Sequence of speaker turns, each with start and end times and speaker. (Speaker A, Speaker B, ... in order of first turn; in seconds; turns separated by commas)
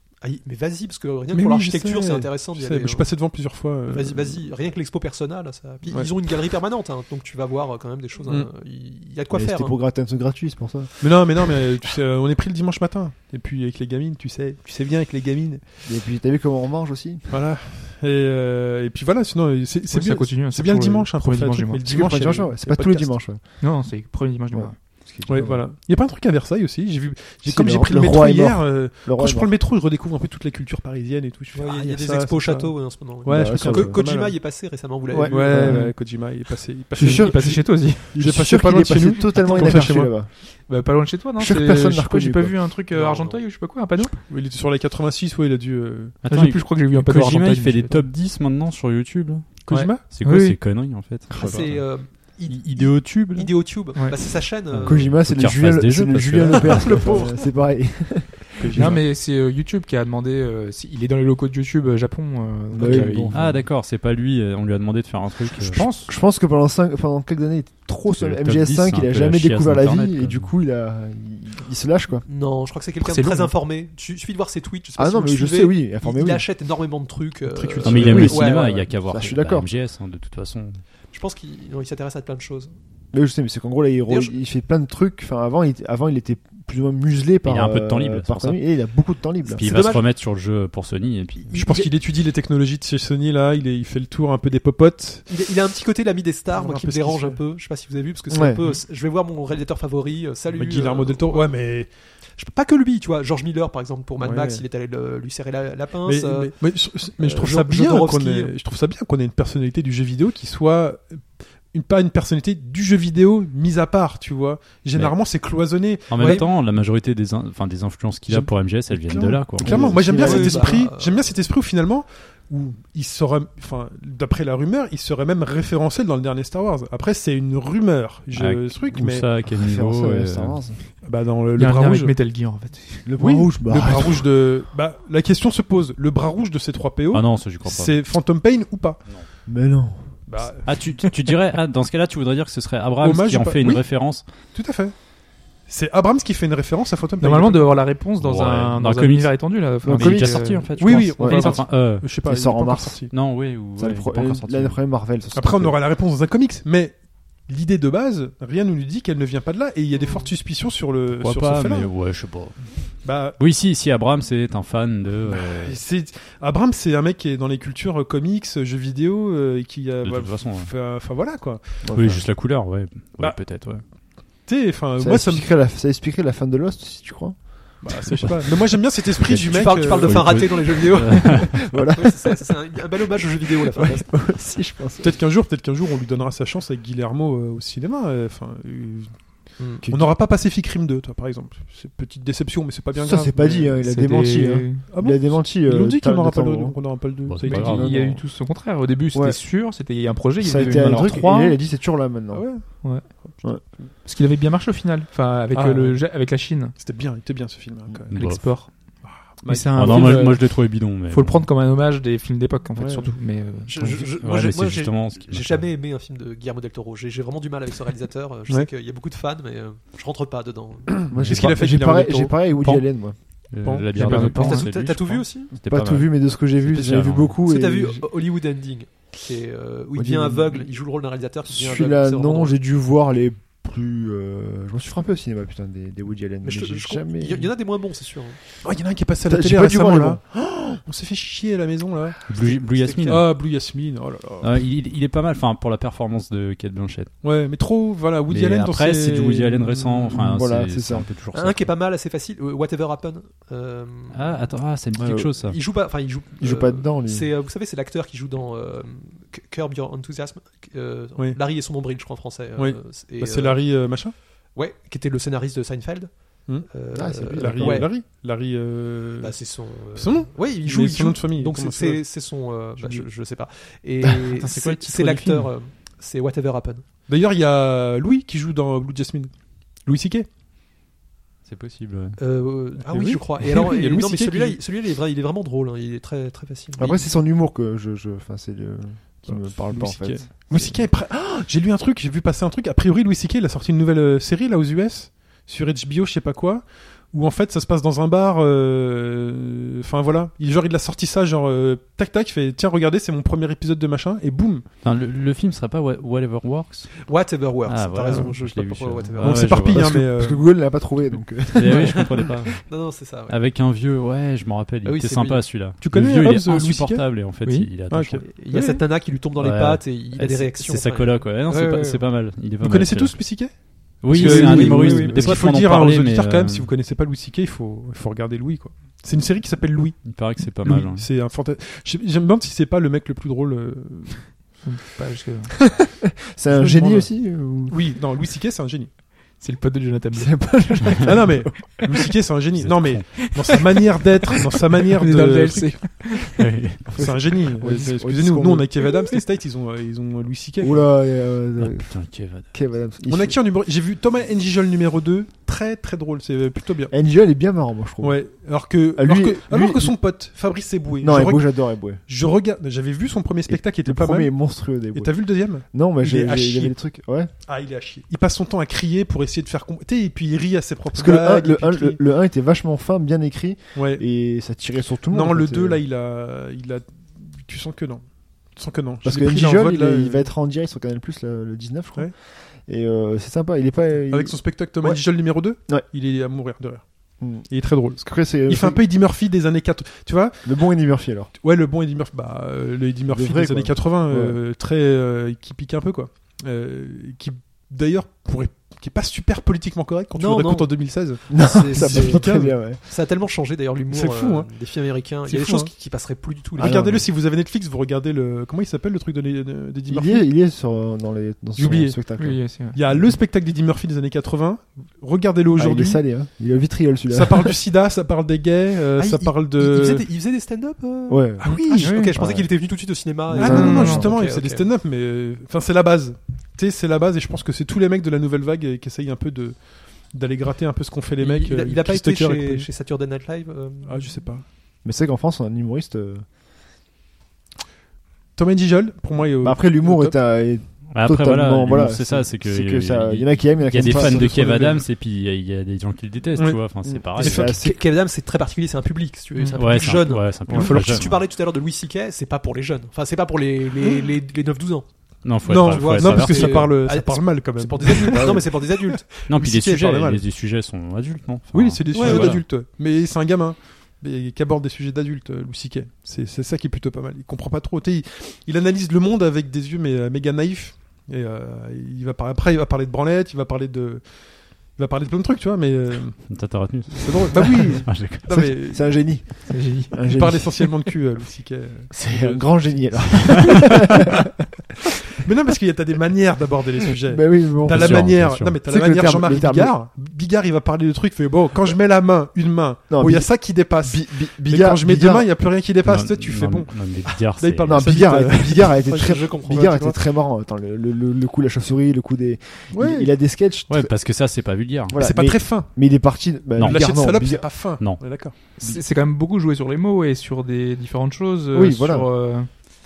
Speaker A: 0.2-3.1, Speaker B: 1.3-4.4, Speaker A: 3.9-9.8, Speaker B: 5.9-6.4, Speaker C: 9.3-10.9, Speaker B: 11.0-15.6, Speaker C: 15.8-17.2, Speaker B: 17.3-23.2, Speaker D: 19.9-21.9, Speaker C: 21.8-23.4, Speaker D: 23.6-24.7, Speaker C: 24.5-25.7, Speaker B: 25.3-34.4, Speaker C: 27.4-29.5, Speaker A: 31.5-35.8, Speaker C: 33.3-34.0, Speaker C: 35.1-35.9, Speaker B: 35.3-40.1, Speaker D: 35.6-36.0, Speaker D: 36.9-38.2, Speaker C: 37.0-40.3, Speaker D: 39.2-44.2, Speaker C: 41.4-42.6, Speaker A: 42.9-43.4, Speaker B: 44.3-46.2, Speaker E: 46.2-53.7, Speaker D: 46.2-48.1, Speaker B: 49.7-50.0, Speaker D: 49.7-50.6, Speaker B: 51.3-51.7, Speaker A: 51.3-55.1, Speaker E: 54.7-57.2, Speaker C: 54.8-59.0, Speaker A: 56.5-57.5, Speaker E: 58.6-59.0, Speaker D: 58.7-63.5, Speaker C: 62.7-63.5, Speaker E: 62.9-65.9, Speaker D: 65.7-66.1, Speaker C: 65.8-72.2, Speaker E: 68.2-70.5, Speaker A: 72.2-78.9, Speaker D: 73.0-73.5, Speaker C: 75.0-76.4, Speaker E: 77.5-80.8, Speaker C: 77.8-79.7, Speaker B: 77.9-78.2, Speaker A: 81.1-82.7, Speaker C: 83.1-89.6, Speaker A: 84.1-84.3, Speaker E: 87.4-88.6, Speaker A: 89.5-90.0, Speaker E: 89.6-91.5, Speaker B: 91.5-95.3, Speaker A: 95.3-101.5, Speaker B: 96.5-97.4, Speaker C: 98.3-98.6, Speaker B: 100.5-101.9, Speaker A: 102.3-106.5, Speaker B: 104.2-104.6, Speaker B: 106.0-116.4, Speaker A: 107.2-108.5, Speaker E: 116.1-119.8, Speaker A: 116.2-116.5, Speaker B: 118.3-129.3, Speaker C: 119.6-120.9, Speaker A: 120.0-121.3, Speaker E: 128.3-130.6, Speaker C: 129.4-130.8, Speaker B: 131.0-132.2, Speaker D: 131.6-133.1, Speaker C: 133.1-134.2, Speaker B: 133.2-139.0, Speaker E: 137.1-137.9, Speaker C: 139.5-140.0, Speaker B: 140.3-140.8, Speaker E: 140.7-144.3, Speaker B: 143.0-143.8, Speaker B: 144.5-144.9, Speaker B: 145.6-147.7, Speaker D: 147.2-151.6, Speaker E: 148.1-152.1, Speaker C: 149.8-150.6, Speaker B: 150.8-153.1, Speaker C: 151.2-151.7, Speaker C: 152.2-153.1, Speaker E: 153.1-154.8, Speaker C: 153.8-155.8, Speaker B: 155.3-161.9, Speaker A: 159.9-160.3, Speaker E: 161.1-165.8, Speaker B: 163.0-163.4, Speaker B: 165.3-171.8, Speaker E: 170.0-170.7, Speaker C: 171.8-172.3, Speaker E: 171.9-173.8, Speaker B: 173.2-173.6, Speaker B: 174.4-175.5, Speaker C: 175.0-177.8, Speaker B: 177.8-180.5, Speaker E: 179.2-181.7, Speaker A: 179.4-184.1, Speaker C: 181.2-182.5, Speaker C: 183.7-185.2, Speaker B: 185.0-189.3, Speaker A: 189.6-189.8, Speaker C: 189.8-190.1, Speaker B: 189.9-193.8, Speaker C: 192.9-198.2, Speaker D: 193.8-194.8, Speaker B: 194.9-197.9, Speaker E: 197.3-197.8, Speaker D: 197.4-201.6, Speaker C: 199.1-199.4, Speaker C: 200.4-202.8, Speaker B: 202.3-203.9, Speaker D: 204.0-206.7, Speaker B: 205.5-206.1, Speaker B: 206.7-208.2, Speaker D: 208.1-214.1, Speaker E: 208.1-208.7, Speaker B: 209.0-210.3, Speaker E: 209.7-211.5, Speaker B: 212.7-213.1, Speaker A: 213.7-220.9, Speaker E: 214.2-215.7, Speaker B: 221.0-222.3, Speaker C: 221.1-223.2, Speaker E: 221.2-221.5, Speaker E: 222.6-222.8, Speaker E: 223.5-227.4, Speaker B: 223.6-224.6, Speaker D: 223.9-224.7, Speaker A: 224.4-225.5, Speaker C: 225.6-228.1, Speaker A: 227.4-232.5, Speaker C: 229.9-230.7, Speaker C: 231.4-237.5, Speaker A: 236.4-238.4, Speaker B: 238.6-242.2, Speaker C: 239.3-240.2, Speaker E: 242.3-243.3, Speaker A: 242.3-243.3, Speaker B: 243.1-244.6, Speaker E: 244.4-247.1, Speaker B: 247.2-250.2, Speaker E: 248.3-251.7, Speaker C: 250.1-251.1, Speaker A: 251.3-254.4, Speaker E: 254.1-255.6, Speaker C: 255.0-255.3, Speaker A: 255.4-263.8, Speaker C: 256.4-257.3, Speaker B: 262.6-264.1, Speaker A: 264.5-267.9, Speaker C: 266.9-267.9, Speaker B: 267.3-269.3, Speaker A: 269.2-276.8, Speaker B: 269.9-272.0, Speaker B: 272.8-273.1, Speaker E: 274.3-275.5, Speaker B: 277.1-279.3, Speaker B: 279.8-280.3, Speaker E: 281.4-282.2, Speaker A: 282.2-287.1, Speaker B: 282.8-284.6, Speaker C: 286.8-290.9, Speaker B: 289.3-304.6, Speaker E: 304.8-307.1, Speaker A: 307.1-309.7, Speaker E: 307.6-309.9, Speaker B: 309.2-310.5, Speaker C: 309.7-312.1, Speaker E: 311.5-318.3, Speaker A: 311.6-313.4, Speaker A: 314.8-315.7, Speaker B: 315.8-317.1, Speaker D: 317.4-317.7, Speaker B: 317.9-318.8, Speaker A: 318.2-322.0, Speaker E: 319.4-323.4, Speaker B: 322.6-334.4, Speaker E: 324.0-326.7, Speaker A: 324.1-325.5, Speaker D: 324.2-325.0, Speaker E: 330.0-331.1, Speaker D: 334.6-335.5, Speaker C: 335.8-337.8, Speaker B: 336.5-338.9, Speaker D: 339.4-340.6, Speaker C: 340.1-341.9, Speaker B: 341.0-346.1, Speaker E: 342.6-343.5, Speaker D: 344.9-346.3, Speaker E: 346.4-347.0, Speaker C: 346.9-348.8, Speaker B: 347.0-350.9, Speaker C: 350.6-353.4, Speaker E: 351.6-352.5, Speaker B: 353.1-356.9, Speaker C: 356.9-358.2, Speaker B: 358.0-364.4, Speaker C: 359.0-359.9, Speaker C: 361.0-362.0, Speaker C: 363.5-367.3, Speaker B: 364.9-366.7, Speaker B: 367.4-372.0, Speaker C: 370.9-375.8, Speaker B: 373.7-374.0, Speaker B: 375.1-380.3, Speaker C: 379.0-385.9, Speaker B: 384.1-386.9, Speaker C: 387.2-388.8, Speaker B: 387.4-390.6, Speaker C: 390.4-391.3, Speaker B: 391.4-402.7, Speaker C: 393.1-394.4, Speaker A: 400.1-406.9, Speaker C: 401.3-402.8, Speaker B: 403.9-404.5, Speaker B: 405.2-405.7, Speaker B: 406.6-410.3, Speaker C: 406.6-407.1, Speaker C: 409.9-413.1, Speaker B: 411.6-416.0, Speaker D: 412.2-412.8, Speaker C: 415.6-417.6, Speaker B: 417.1-420.1, Speaker A: 419.0-424.7, Speaker C: 421.1-422.5, Speaker B: 421.4-422.1, Speaker D: 421.7-422.1, Speaker C: 423.3-424.2, Speaker B: 423.3-432.7, Speaker D: 423.4-424.0, Speaker A: 431.2-434.1, Speaker B: 433.8-434.4, Speaker C: 434.8-436.2, Speaker B: 438.4-440.1, Speaker C: 439.4-444.4, Speaker E: 440.9-447.5, Speaker B: 443.8-444.8, Speaker B: 446.4-447.6, Speaker C: 446.8-447.8, Speaker A: 447.2-459.8, Speaker D: 449.4-449.6, Speaker E: 449.6-451.2, Speaker B: 450.5-451.2, Speaker B: 453.8-454.1, Speaker E: 455.2-456.7, Speaker B: 455.4-460.2, Speaker E: 459.2-462.4, Speaker B: 461.5-479.1, Speaker A: 461.9-462.4, Speaker E: 476.3-478.3, Speaker C: 478.3-480.6, Speaker D: 479.5-479.9, Speaker B: 480.0-483.8, Speaker C: 481.9-484.0, Speaker B: 485.2-499.9, Speaker C: 487.1-489.7, Speaker E: 487.6-488.6, Speaker C: 492.9-495.3, Speaker E: 495.8-498.0, Speaker C: 497.6-504.0, Speaker A: 498.7-499.9, Speaker B: 502.7-503.1, Speaker E: 503.7-505.0, Speaker C: 504.9-507.7, Speaker B: 504.9-505.8, Speaker E: 506.6-507.1, Speaker B: 506.6-508.3, Speaker E: 507.8-508.0, Speaker D: 508.6-512.6, Speaker C: 511.5-512.1